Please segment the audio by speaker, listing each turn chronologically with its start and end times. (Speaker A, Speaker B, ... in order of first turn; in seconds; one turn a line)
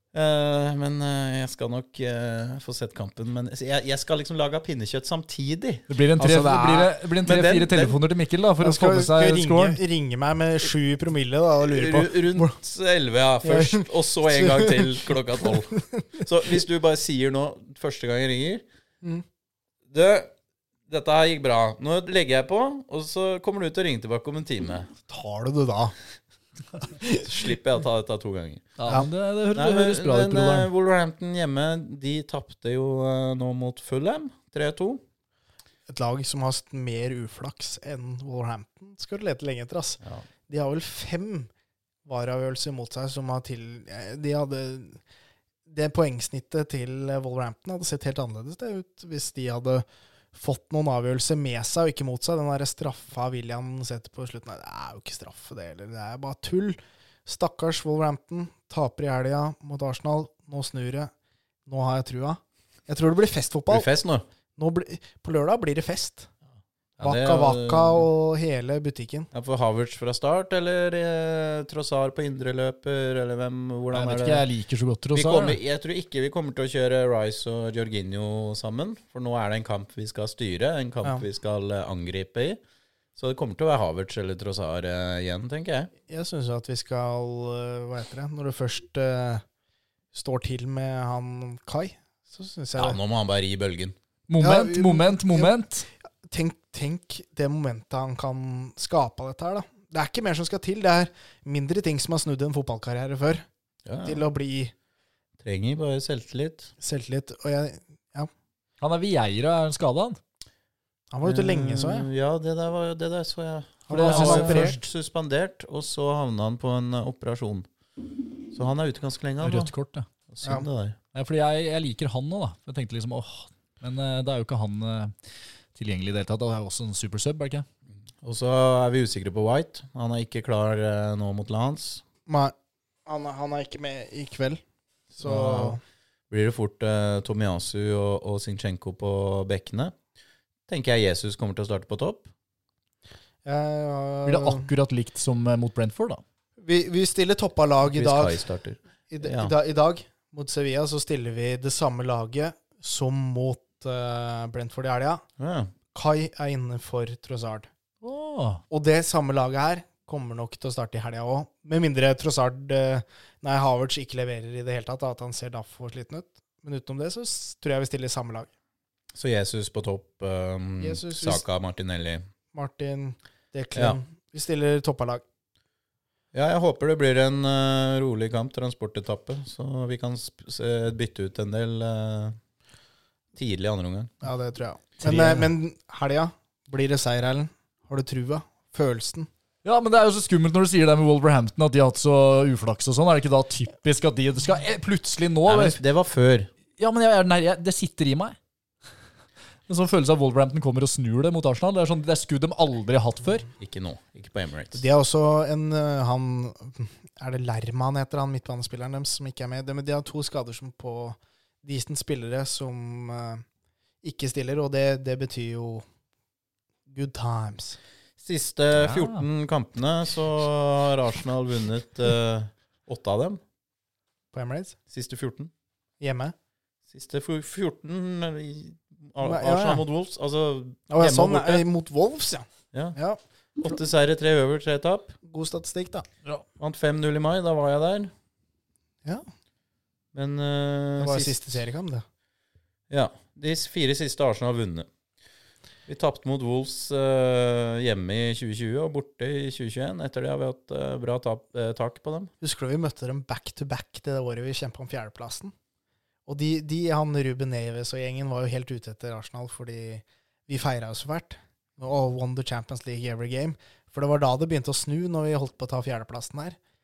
Speaker A: 0.1-5.8
Speaker B: 5.9-9.8
Speaker C: 6.2-6.8
Speaker A: 6.4-8.0
Speaker C: 8.6-12.6
Speaker A: 11.6-18.6
Speaker C: 13.4-16.2
Speaker A: 19.9-20.3
Speaker A: 20.9-24.9
Speaker C: 25.1-25.9
Speaker A: 27.2-28.8
Speaker B: 28.8-30.7
Speaker A: 29.6-35.0
Speaker C: 35.9-41.5
Speaker C: 42.1-45.0
Speaker C: 45.7-61.1
Speaker C: 61.7-63.9
Speaker A: 63.7-64.3
Speaker C: 64.6-66.3
Speaker A: 67.0-68.1
Speaker C: 67.0-69.3
Speaker A: 69.3-74.5
Speaker B: 73.9-75.6
Speaker A: 75.1-82.6
Speaker A: 83.2-85.9
Speaker C: 86.1-89.4
Speaker C: 90.1-93.0
Speaker A: 92.8-94.0
Speaker B: 94.3-95.9
Speaker C: 94.4-95.6
Speaker C: 96.2-103.5
Speaker A: 103.9-104.2
Speaker C: 104.0-104.7
Speaker A: 105.4-106.7
Speaker C: 106.8-108.3
Speaker B: 108.8-110.2
Speaker C: 111.1-112.1
Speaker A: 111.2-117.7
Speaker C: 113.9-114.8
Speaker B: 113.9-114.8
Speaker A: 118.5-119.7
Speaker B: 119.4-120.1
Speaker A: 120.3-121.0
Speaker B: 121.1-125.1
Speaker B: 125.8-127.7
Speaker A: 128.2-132.0
Speaker C: 132.3-132.5
Speaker C: 133.1-134.6
Speaker C: 135.2-135.8
Speaker A: 135.2-135.8
Speaker A: 136.3-139.9
Speaker A: 140.7-142.3
Speaker C: 143.4-144.7
Speaker B: 144.2-146.2
Speaker C: 146.6-148.4
Speaker A: 147.9-149.5
Speaker C: 149.1-155.2
Speaker A: 155.4-155.7
Speaker C: 155.9-157.7
Speaker B: 158.0-158.6
Speaker C: 158.7-168.5
Speaker A: 169.1-172.3
Speaker C: 170.8-171.4
Speaker C: 172.5-175.2
Speaker A: 176.3-182.4
Speaker A: 183.4-184.1
Speaker C: 184.2-189.3
Speaker B: 185.0-185.5
Speaker B: 189.6-195.8
Speaker A: 195.5-196.5
Speaker B: 196.8-198.4
Speaker B: 199.7-203.5
Speaker A: 203.6-204.8
Speaker C: 204.7-213.4
Speaker C: 214.0-215.8
Speaker C: 216.9-217.8
Speaker A: 218.2-223.4
Speaker B: 218.8-219.2
Speaker C: 224.3-224.8
Speaker A: 224.9-225.5
Speaker C: 226.0-226.3
Speaker A: 226.9-231.6
Speaker C: 229.2-229.8
Speaker C: 230.9-233.2
Speaker A: 233.6-235.1
Speaker C: 235.2-236.1
Speaker A: 236.6-238.1
Speaker A: 240.1-241.6
Speaker C: 241.0-242.1
Speaker A: 242.9-244.9
Speaker A: 245.9-252.3
Speaker C: 252.4-255.5
Speaker C: 256.3-266.6